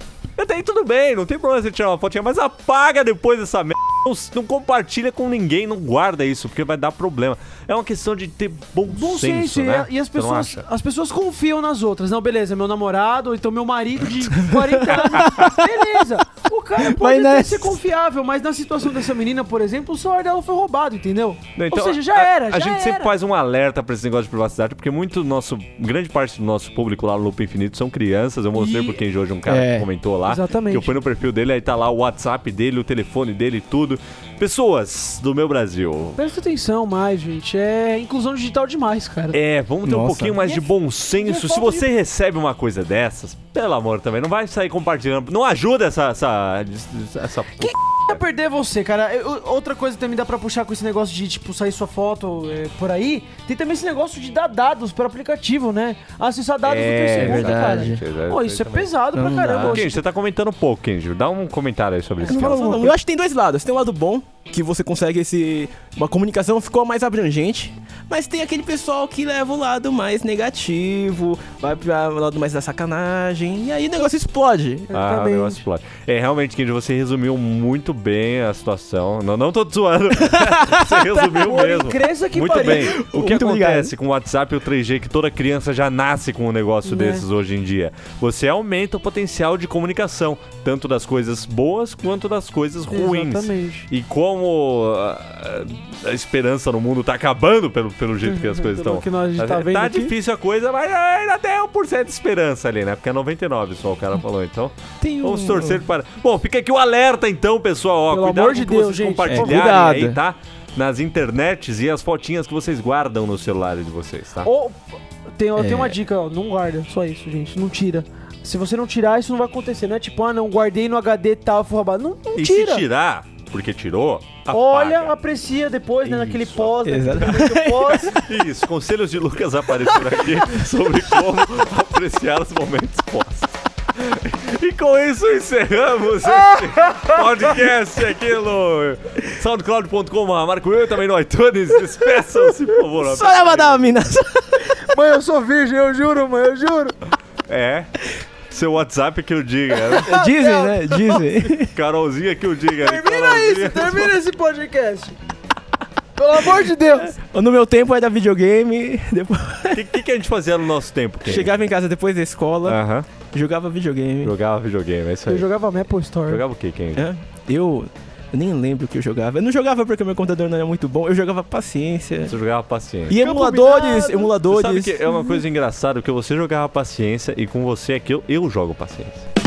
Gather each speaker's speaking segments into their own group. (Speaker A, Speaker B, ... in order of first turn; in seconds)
Speaker A: 0.4-10.7, 14.9-15.3, 21.6-36.2, 39.3-48.2, 56.6-58.9, 59.6-62.9, 74.9-114.5, 122.4-125.1, 126.0-143.9, 147.5-147.9, 148.5-150.2, 151.7-154.1, 159.7-161.5, 162.6-163.1, 164.2-165.5, 166.3-167.1, 172.2-173.2, 174.5-179.3
Speaker B: 8.9-23.1, 28.5-29.0, 30.2-31.0, 36.2-39.4, 40.4-41.9, 47.6-60.0, 62.2-63.0, 74.9-75.6, 81.2-83.0, 86.8-87.3, 92.9-93.9, 98.2-100.1, 108.1-109.7, 114.4-114.8, 115.4-122.9, 124.5-128.2, 136.3-137.2, 144.6-146.9, 150.0-151.2, 152.8-155.2, 156.2-157.2, 165.3-166.4, 173.1-174.3, 175.1-175.4
Speaker C: 14.4-16.0, 16.8-17.8, 29.5-29.9, 39.8-40.4, 57.2-58.0, 59.1-59.9, 62.3-74.9, 80.3-81.0, 82.5-83.9, 105.0-105.8, 109.3-110.2, 115.6-116.0, 126.8-127.9, 143.0-144.6, 150.1-151.7, 156.8-159.9, 161.2-164.3, 166.9-172.4, 173.1-175.0